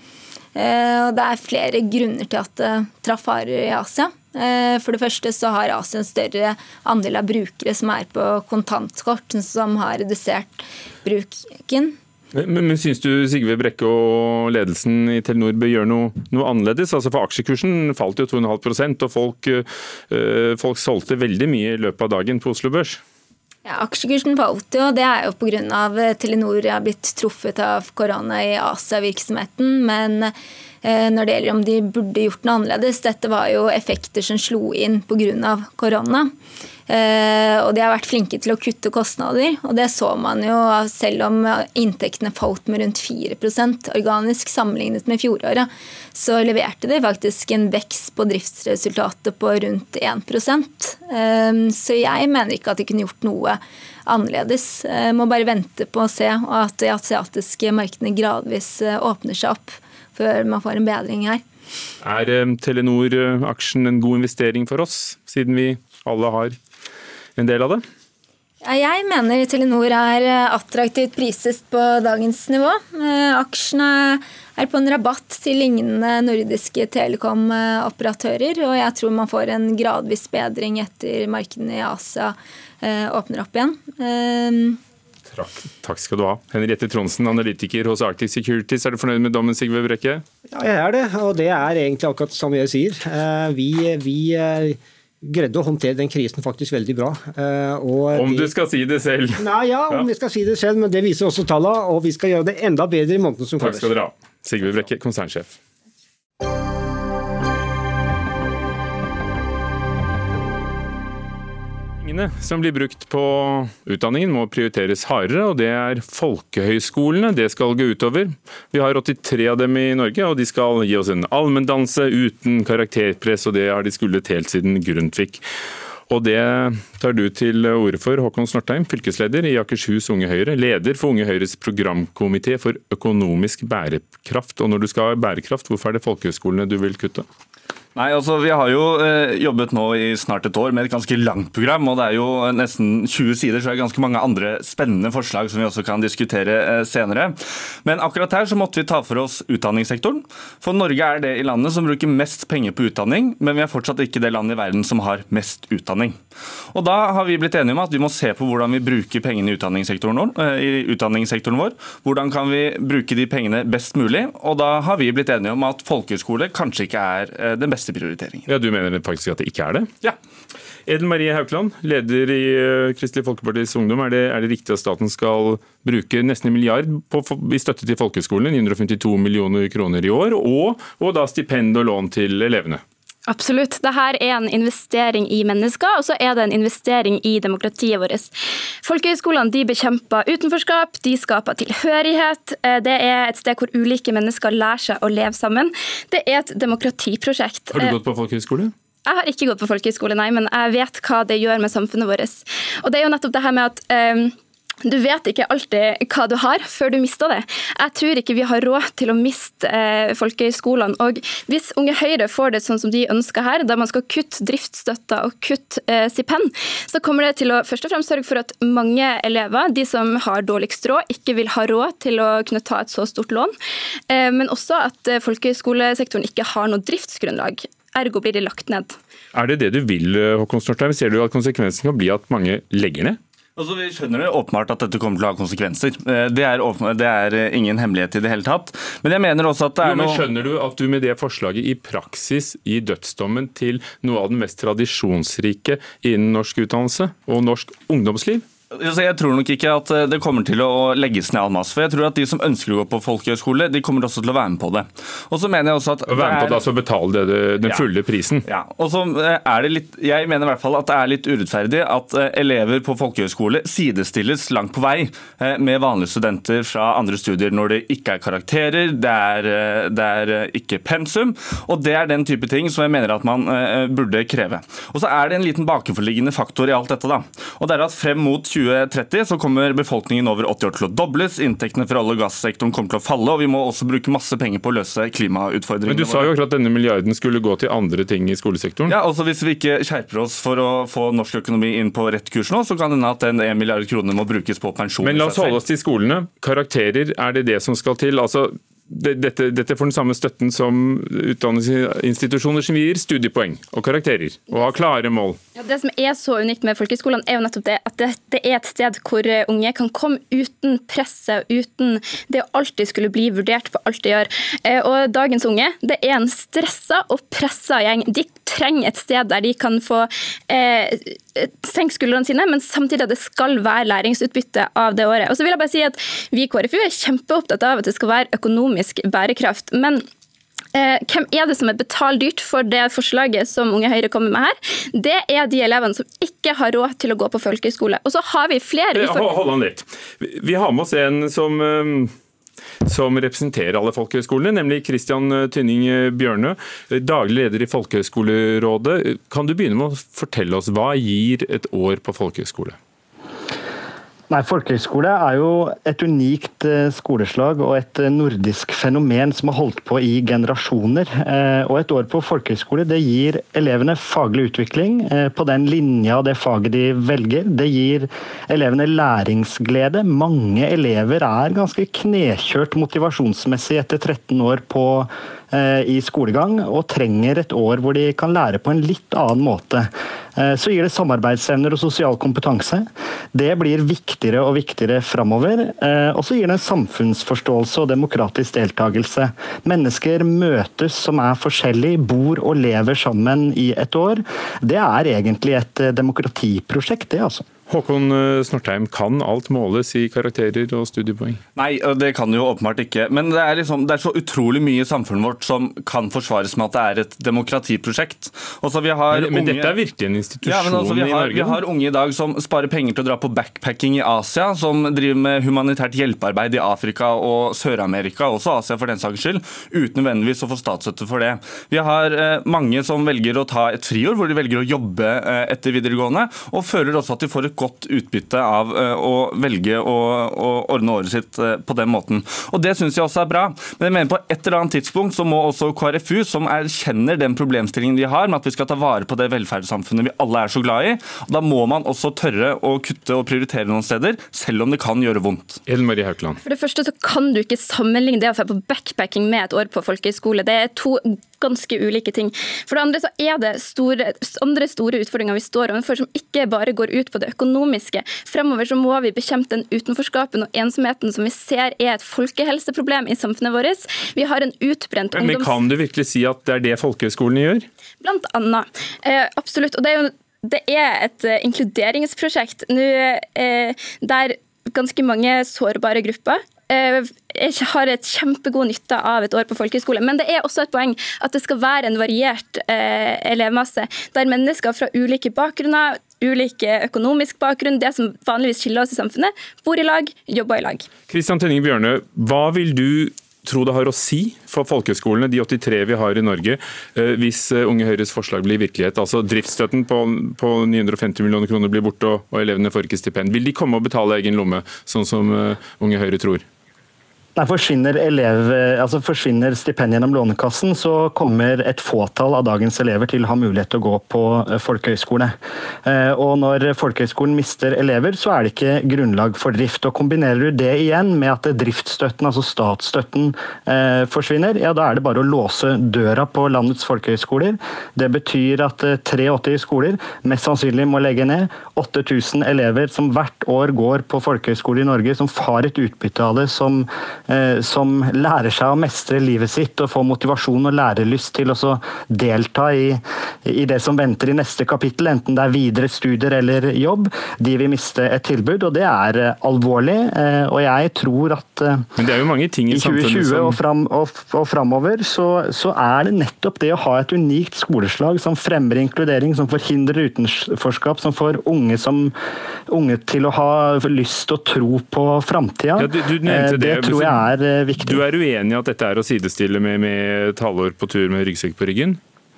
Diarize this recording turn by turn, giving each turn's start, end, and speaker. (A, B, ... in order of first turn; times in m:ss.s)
0:00.5-0:12.0 A
0:12.3-0:23.0 B
0:23.6-0:36.3 A
0:36.9-1:01.4 A
1:02.0-1:06.6 B
1:07.4-1:07.8 B
1:08.6-1:24.8 A
1:25.3-1:30.2 B
1:30.5-1:38.5 C
1:38.1-1:40.1 B
1:39.4-1:43.9 C
1:43.6-1:45.6 B
1:52.0-2:05.4 B
2:06.1-2:17.2 B
2:17.9-2:36.2 D
2:36.7-2:48.5 D
2:48.5-2:49.9 B
2:50.9-3:02.8 B
3:03.3-3:18.0 E
3:17.7-3:18.7 B
3:19.0-3:43.5 E
3:44.1-3:49.0 E
3:49.3-3:53.2 B
3:53.6-4:00.3 D
3:59.8-4:08.4 B
4:08.7-4:16.7 D
4:16.1-4:18.4 B
4:17.6-4:17.8 D
4:18.4-4:46.3 D
4:45.8-4:48.9 B
4:48.9-4:55.6 D
4:55.0-5:05.4 B
5:05.5-5:30.0 E
5:30.7-5:39.3 E
5:38.9-5:42.1 B
5:42.8-5:52.8 B
5:54.3-6:37.4 F
6:37.7-6:41.4 B
6:41.6-6:49.8 D
6:49.1-6:51.6 B
6:50.4-7:25.6 D
7:25.7-7:26.4 B
7:26.4-7:45.6 E
7:45.1-7:47.6 B
7:48.0-8:10.9 E
8:11.1-8:26.4 B
8:27.4-9:11.9 F
9:12.0-9:13.6 B
9:12.7-9:22.1 F
9:22.7-9:28.0 F
9:25.8-9:32.0 B